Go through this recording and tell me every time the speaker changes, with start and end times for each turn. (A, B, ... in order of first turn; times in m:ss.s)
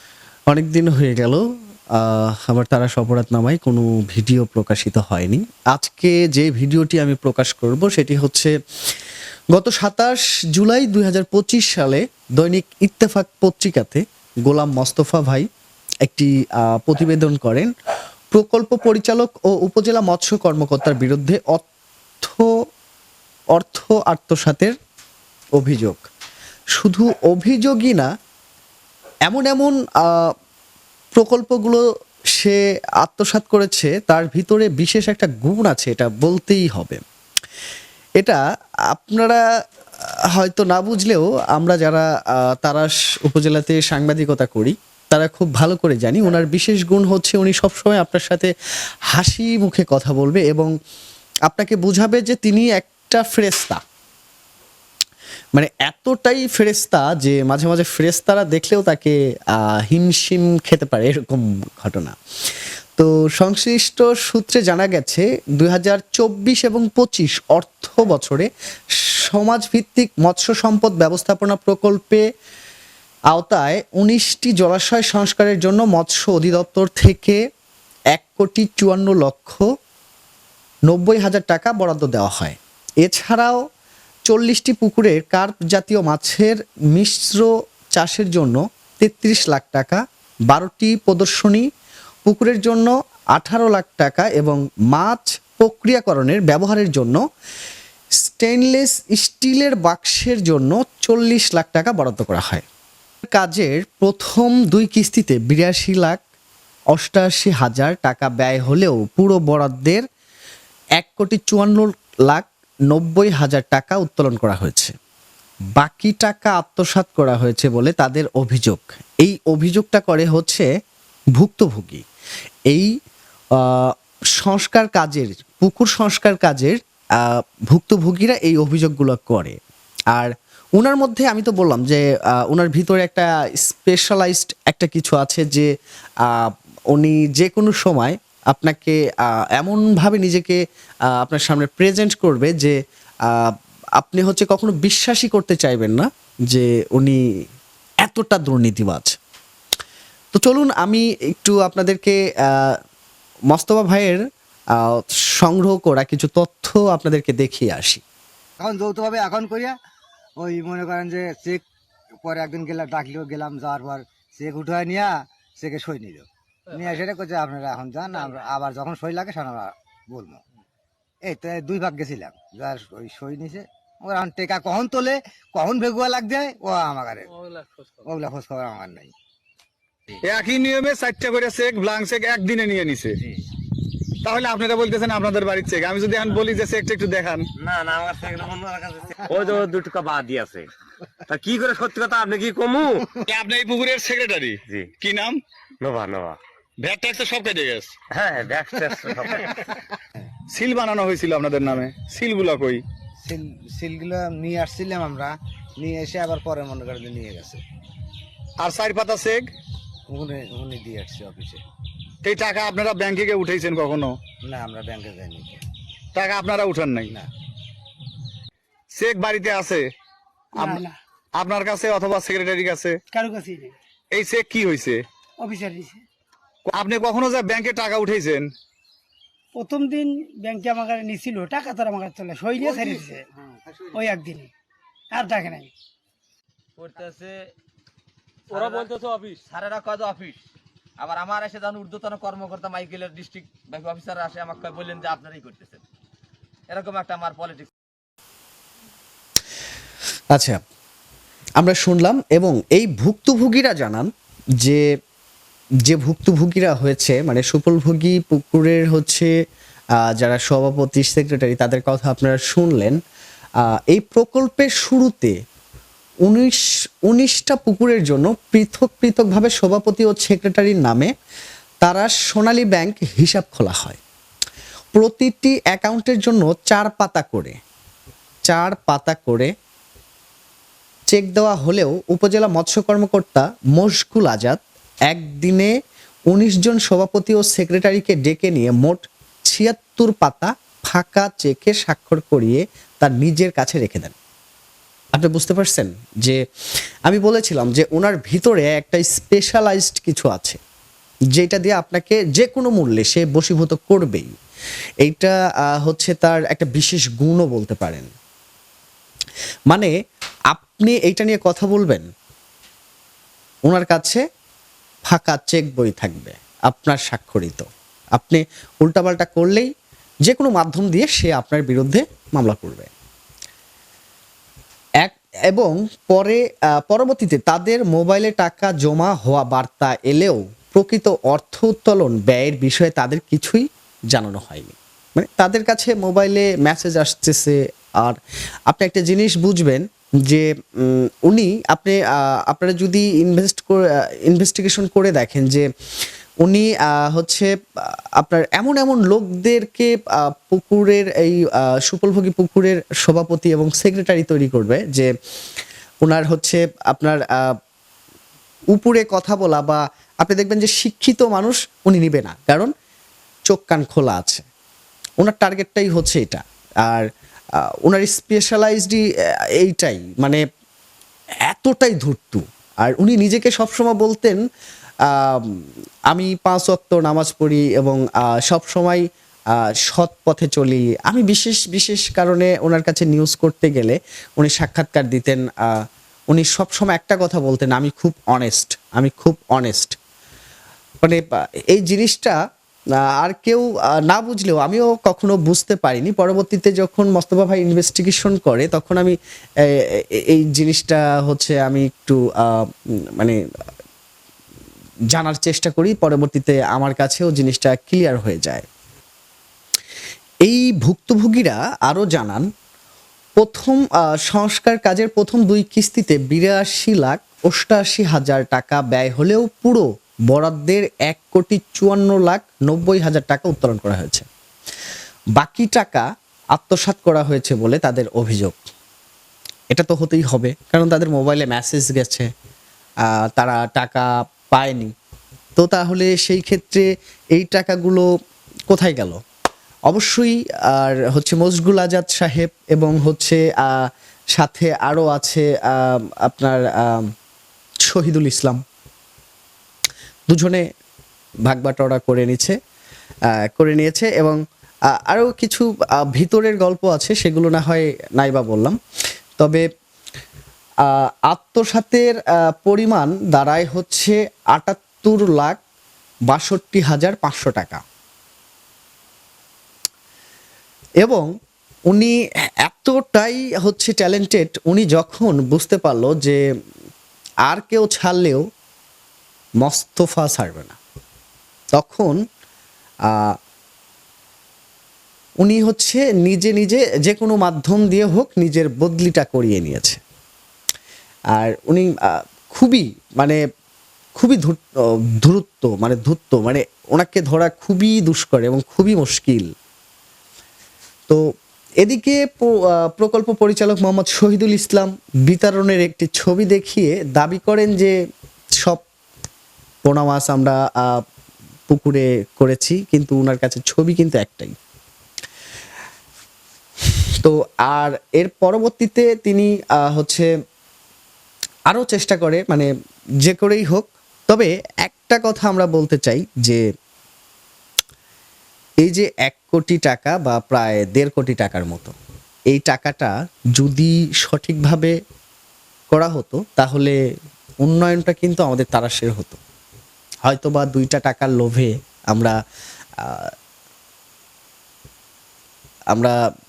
0:00.5-0:08.5 A
0:09.5-0:15.5 A
0:16.0-0:17.7 A
0:18.3-0:21.6 A
0:22.2-0:22.5 A
0:23.6-0:24.7 A
0:25.6-0:26.0 A
0:26.8-0:28.1 A
0:29.3-0:30.3 A
0:31.2-0:31.8 A
0:32.4-0:37.0 A
0:38.9-0:39.4 A
0:40.3-0:48.5 A
0:49.1-0:50.7 A
0:51.5-0:53.8 A
0:55.5-1:02.2 A
1:03.0-1:08.5 A
1:09.0-1:12.2 A
1:13.3-1:17.4 A
1:18.1-1:19.6 A
1:20.9-1:23.6 A
1:24.3-1:31.7 A
1:32.2-1:37.2 A
1:38.2-1:42.6 A
1:43.3-1:46.2 A
1:46.9-1:50.0 A
1:51.0-1:54.9 A
1:55.8-2:00.7 A
2:01.4-2:02.0 A
2:03.6-2:09.6 A
2:10.1-2:15.7 A
2:16.3-2:19.0 A
2:19.6-2:20.6 A
2:21.2-2:22.8 A
2:23.3-2:27.2 A
2:28.0-2:29.2 A
2:30.3-2:32.8 A
2:33.5-2:34.2 A
2:34.8-2:38.0 A
2:38.6-2:39.7 B
2:40.4-2:41.6 B
2:42.2-2:50.4 B
2:51.2-2:57.4 B
2:58.0-2:59.1 B
3:00.2-3:03.2 C
3:04.2-3:07.5 C
3:07.6-3:10.7 D
3:11.3-3:13.1 D
3:13.2-3:15.4 C
3:15.8-3:16.4 D
3:16.8-3:17.9 C
3:18.1-3:19.6 D
3:20.5-3:22.8 C
3:23.2-3:27.6 B
3:28.6-3:29.5 C
3:30.1-3:31.6 B
3:32.2-3:34.2 C
3:34.4-3:35.6 B
3:36.1-3:37.1 C
3:38.9-3:39.9 C
3:40.6-3:41.0 E
3:41.4-3:43.0 C
3:43.1-3:43.7 E
3:44.1-3:45.0 C
3:45.4-3:46.0 E
3:46.7-3:48.5 C
3:49.5-3:53.2 E
3:52.6-3:54.0 B
3:53.9-3:54.5 E
3:55.1-3:55.7 E
3:56.8-3:57.5 F
3:58.5-4:00.4 F
3:58.7-3:59.3 D
4:01.0-4:05.8 F
4:06.7-4:07.7 F
4:10.3-4:10.6 A
4:11.6-4:14.1 A
4:15.9-4:19.3 A
4:20.0-4:23.0 A
4:23.7-4:25.3 A
4:26.3-4:31.1 A
4:31.8-4:34.0 A
4:34.9-4:37.6 A
4:38.5-4:39.5 A
4:41.1-4:45.7 A
4:46.3-4:54.1 A
4:55.2-4:56.4 A
4:57.1-5:00.6 A
5:01.3-5:04.3 A
5:05.0-5:08.1 A
5:10.5-5:12.0 A
5:13.7-5:14.2 A
5:15.1-5:17.6 A
5:18.2-5:19.7 A
5:20.2-5:22.9 A
5:25.0-5:38.2 A
5:38.7-5:45.7 A
5:46.4-5:55.1 A
5:56.0-5:57.5 A
5:58.7-6:02.7 A
6:03.5-6:04.4 A
6:05.2-6:07.0 A
6:07.8-6:09.0 A
6:09.6-6:10.4 A
6:11.5-6:14.4 A
6:15.1-6:19.0 A
6:19.8-6:30.0 A
6:31.0-6:32.4 A
6:33.1-6:39.2 A
6:39.7-6:43.4 A
6:45.1-6:48.6 A
6:50.4-6:52.4 A
6:53.4-7:04.2 A
7:05.4-7:08.6 A
7:09.7-7:12.3 A
7:13.0-7:14.9 A
7:15.6-7:18.1 A
7:18.7-7:19.2 A
7:19.9-7:27.1 A
7:27.9-7:28.6 A
7:30.3-7:30.6 A
7:31.5-7:32.6 A
7:33.4-7:34.4 A
7:35.0-7:38.8 A
7:40.8-7:45.6 A
7:46.3-7:47.8 A
7:51.9-7:52.1 A
7:52.6-7:56.4 A
7:57.5-7:58.4 A
7:59.6-8:00.8 A
8:01.8-8:02.2 A
8:03.1-8:03.3 A
8:05.4-8:10.0 A
8:11.3-8:11.9 A
8:12.5-8:13.4 A
8:14.2-8:14.6 A
8:15.2-8:19.5 A
8:21.8-8:27.9 A
8:29.8-8:31.0 A
8:31.7-8:34.5 A
8:37.2-8:40.3 A
8:41.7-8:42.7 A
8:43.2-8:46.6 A
8:48.8-8:51.9 A
8:52.5-8:55.0 A
8:55.9-8:56.9 A
8:57.6-8:59.4 A
9:00.2-9:02.4 A
9:03.0-9:03.3 A